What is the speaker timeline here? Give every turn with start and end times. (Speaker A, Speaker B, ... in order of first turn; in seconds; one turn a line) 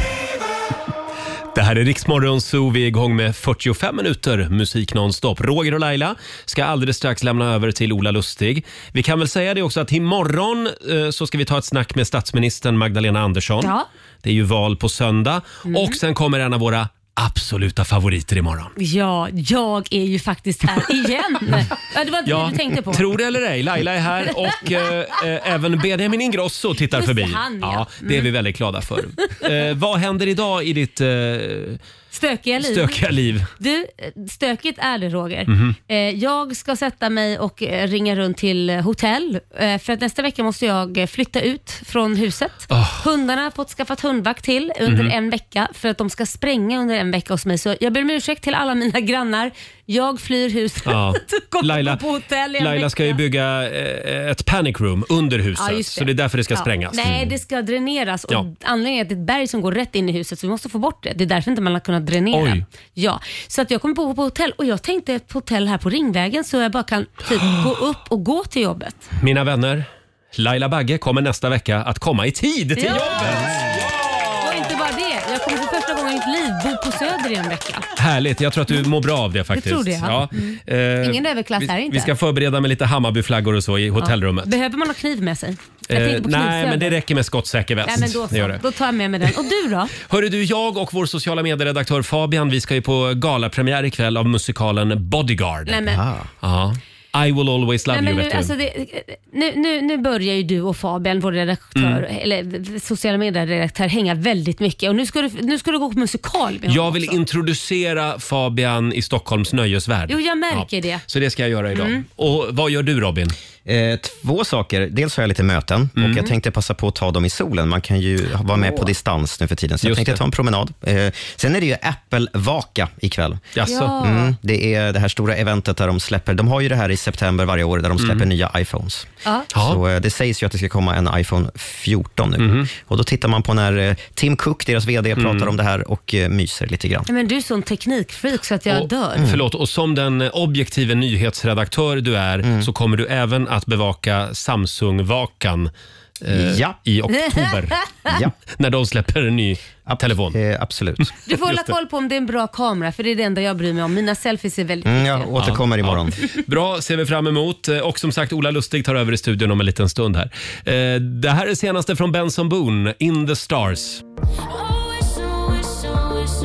Speaker A: 1.5-18.7
Speaker B: 13.6-13.9
Speaker B: 15.7-16.0
Speaker B: 18.8-23.1
Speaker A: 22.2-31.8
Speaker B: 26.9-28.3
Speaker B: 32.1-33.0
Speaker A: 32.6-33.5
Speaker B: 33.5-53.2
Speaker A: 35.5-35.8
Speaker A: 42.7-43.0
Speaker A: 44.9-45.1
Speaker A: 50.9-52.0
Speaker A: 52.6-57.2
Speaker B: 55.6-69.0
Speaker A: 62.3-62.6
Speaker A: 69.2-74.7
Speaker B: 72.8-73.5
Speaker B: 74.4-77.8
Speaker A: 78.0-84.5
Speaker B: 79.5-82.1
Speaker B: 84.0-87.0
Speaker A: 85.9-88.6
Speaker B: 87.8-89.9
Speaker A: 90.0-95.8
Speaker B: 95.7-96.0
Speaker C: 95.8-96.3
Speaker A: 96.4-98.5
Speaker B: 97.9-107.2
Speaker A: 101.8-102.0
Speaker A: 106.7-113.3
Speaker B: 110.1-111.0
Speaker B: 111.7-112.0
Speaker C: 113.7-123.5
Speaker A: 116.0-116.3
Speaker B: 118.5-118.9
Speaker A: 119.8-120.2
Speaker A: 123.5-124.0
Speaker B: 123.7-124.3
Speaker C: 124.0-129.1
Speaker A: 128.0-128.3
Speaker A: 129.5-129.8
Speaker C: 129.6-137.1
Speaker A: 132.4-132.7
Speaker A: 135.2-135.5
Speaker B: 137.1-139.2
Speaker A: 138.7-145.7
Speaker C: 139.2-139.4
Speaker A: 146.2-147.9
Speaker C: 146.3-146.8
Speaker B: 147.3-148.1
Speaker C: 148.1-148.3
Speaker A: 148.5-150.4
Speaker C: 149.9-151.1
Speaker A: 151.0-151.6
Speaker B: 151.2-155.3
Speaker C: 154.8-156.2
Speaker A: 155.4-164.0